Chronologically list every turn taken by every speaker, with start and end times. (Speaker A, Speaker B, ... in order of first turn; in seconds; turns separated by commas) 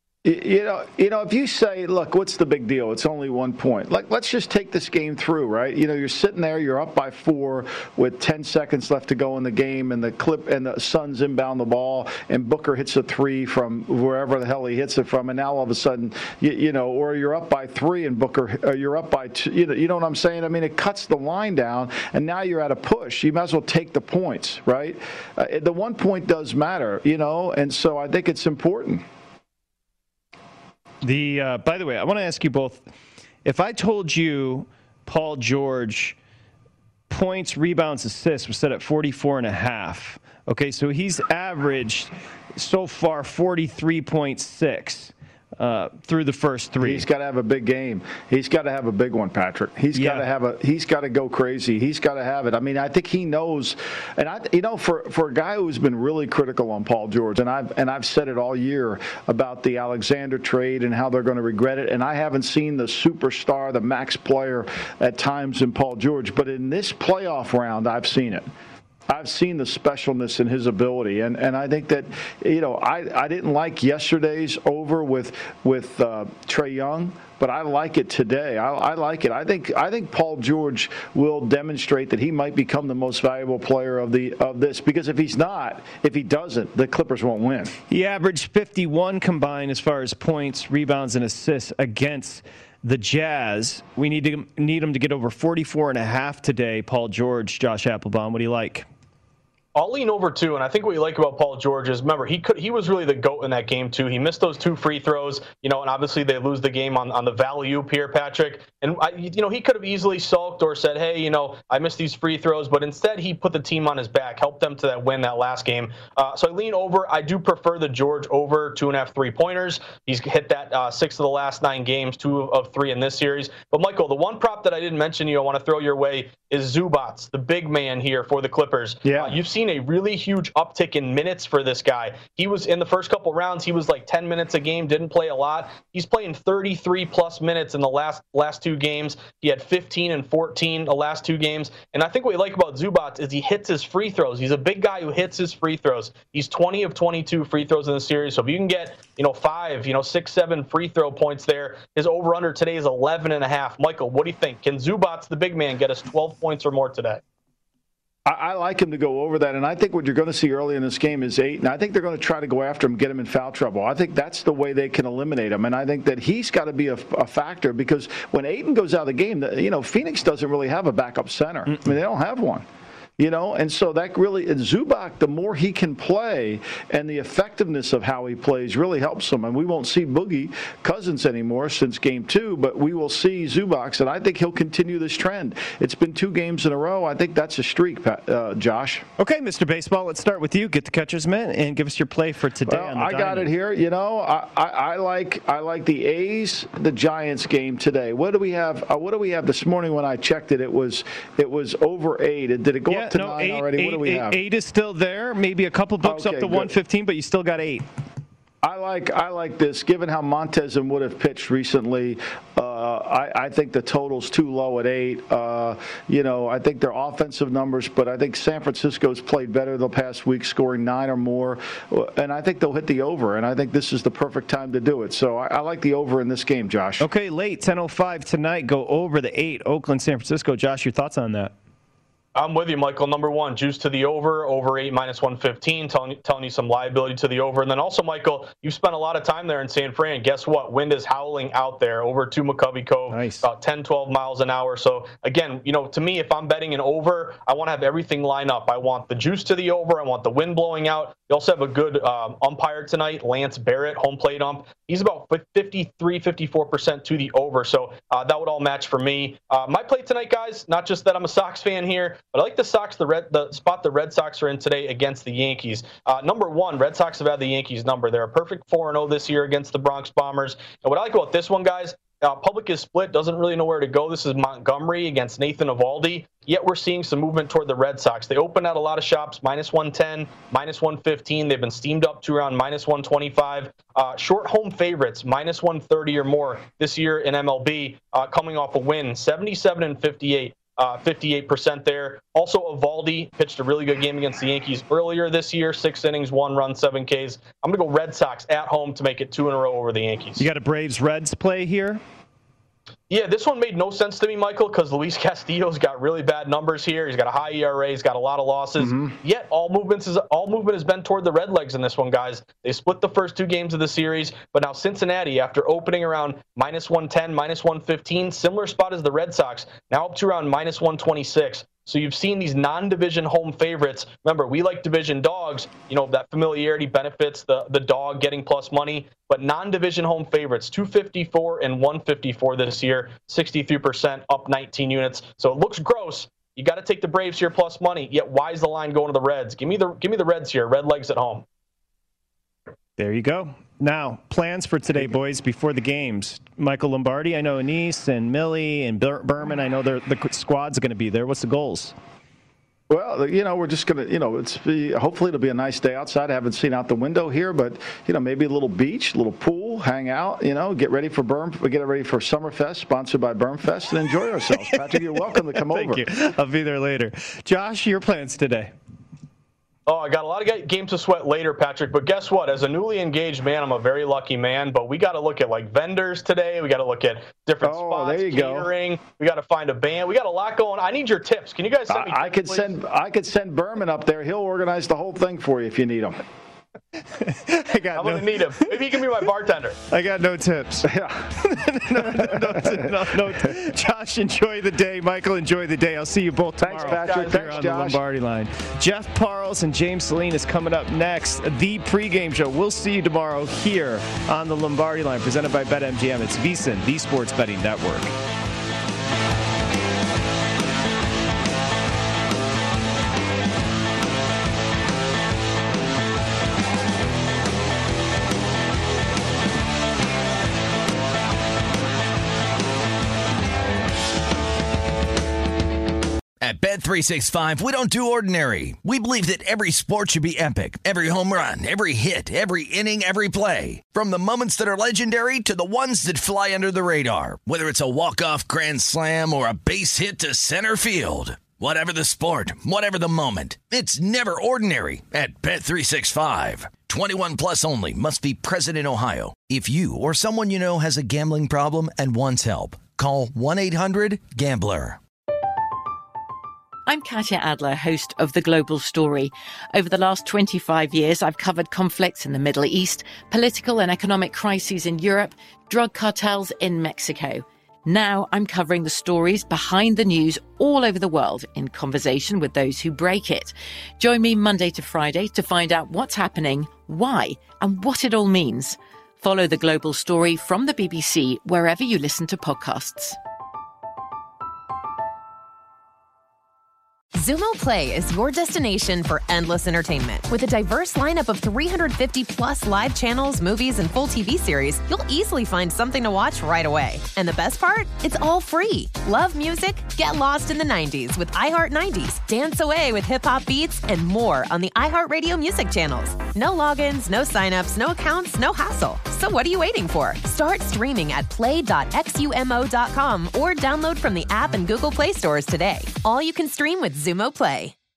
Speaker A: 0.2-29.0, Speaker B: 31.0-32.8, Speaker B: 33.4-36.1, Speaker B: 37.1-47.0, Speaker A: 46.8-68.5, Speaker B: 49.9-50.2, Speaker A: 69.1-87.8, Speaker B: 87.9-98.8, Speaker C: 99.7-157.2, Speaker A: 129.0-129.4, Speaker A: 158.2-172.6, Speaker A: 173.2-189.1, Speaker B: 189.2-193.5, Speaker A: 192.7-204.4, Speaker B: 202.9-207.8, Speaker A: 206.0-206.7, Speaker A: 208.6-227.1, Speaker B: 227.0-231.5, Speaker C: 232.3-300.4, Speaker B: 243.1-243.5, Speaker B: 300.4-302.0, Speaker C: 303.1-341.4, Speaker A: 308.8-309.1, Speaker B: 343.0-351.9, Speaker A: 352.9-366.1, Speaker B: 364.6-368.7, Speaker C: 369.9-382.7, Speaker A: 377.6-378.7, Speaker A: 381.9-386.2, Speaker B: 387.2-389.0, Speaker C: 387.9-389.8, Speaker B: 389.9-408.1, Speaker A: 390.8-391.3, Speaker A: 392.0-392.9, Speaker A: 396.6-398.0, Speaker C: 396.6-397.6, Speaker D: 426.4-455.0, Speaker E: 456.9-483.2, Speaker F: 487.1-517.7